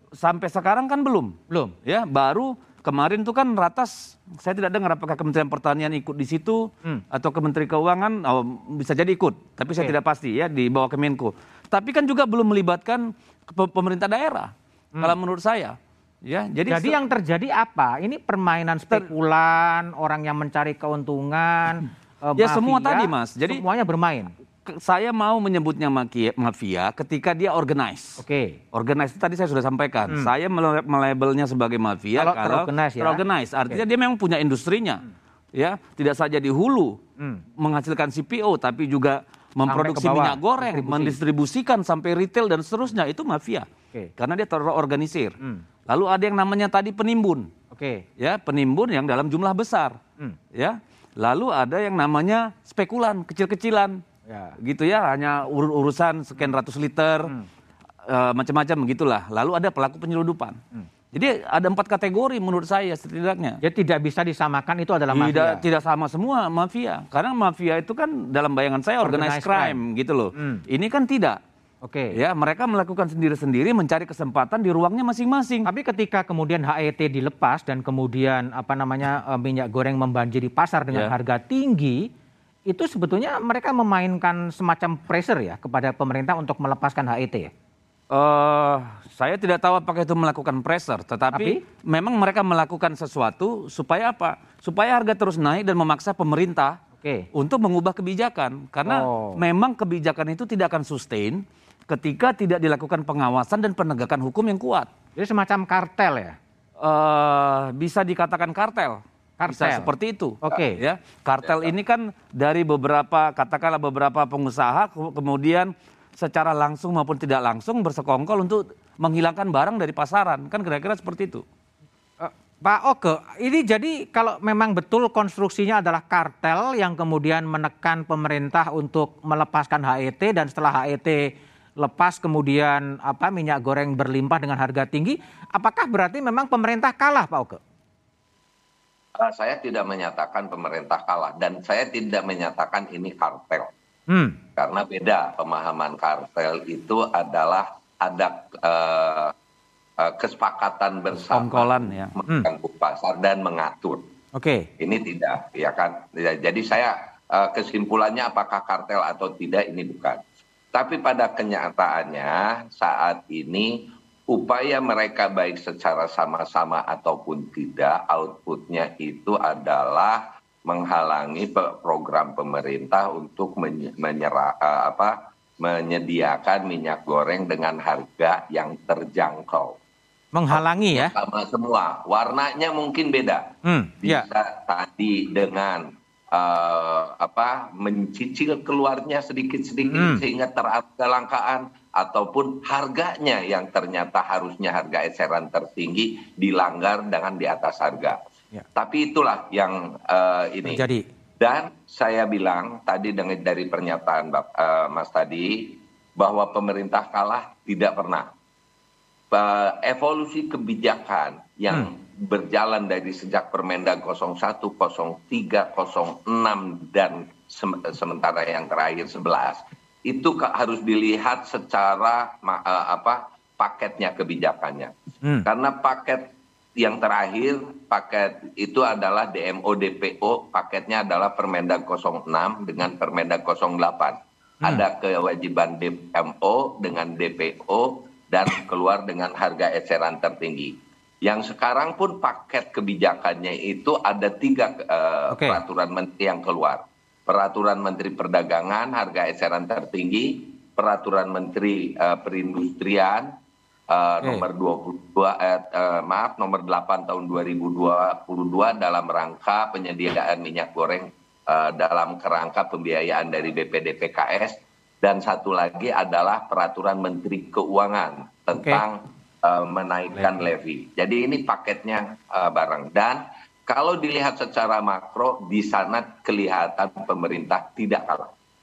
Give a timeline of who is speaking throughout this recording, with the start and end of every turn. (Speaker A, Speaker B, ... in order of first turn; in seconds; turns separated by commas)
Speaker A: 0.2-16.9, Speaker B: 1.5-1.7, Speaker B: 16.7-24.3, Speaker A: 22.4-23.6, Speaker A: 24.6-28.2, Speaker B: 28.2-28.6, Speaker A: 28.7-37.0, Speaker B: 32.2-33.8, Speaker A: 37.6-45.3, Speaker B: 39.7-41.2, Speaker A: 45.9-47.5, Speaker B: 47.7-48.0, Speaker A: 48.2-50.0, Speaker A: 50.5-54.0, Speaker B: 54.3-54.5, Speaker A: 54.6-57.3, Speaker A: 58.0-60.6, Speaker A: 61.1-63.6, Speaker B: 63.6-65.6, Speaker A: 65.1-71.4, Speaker B: 69.0-69.8, Speaker B: 70.4-70.6, Speaker B: 71.8-72.1, Speaker A: 72.1-75.7, Speaker B: 75.6-82.1, Speaker B: 82.7-87.5, Speaker A: 88.1-96.8, Speaker B: 91.3-91.6, Speaker B: 97.0-97.3, Speaker A: 97.3-104.9, Speaker B: 98.8-99.4, Speaker B: 105.2-106.4, Speaker A: 106.8-121.4, Speaker B: 109.4-109.9, Speaker B: 110.4-110.8, Speaker B: 122.2-137.6, Speaker C: 139.2-143.7, Speaker B: 144.1-144.4, Speaker C: 144.6-149.3, Speaker C: 150.0-154.0, Speaker A: 151.3-152.1, Speaker B: 154.3-154.7, Speaker C: 154.8-160.2, Speaker C: 160.7-163.7, Speaker C: 164.3-179.8, Speaker B: 180.3-181.1, Speaker C: 180.5-183.5, Speaker B: 183.6-184.2, Speaker C: 184.0-198.2, Speaker B: 189.9-190.2, Speaker C: 198.8-200.8, Speaker B: 200.6-201.0, Speaker C: 201.4-208.3, Speaker C: 209.3-253.3, Speaker B: 245.3-245.6, Speaker C: 253.9-278.3, Speaker B: 268.6-268.8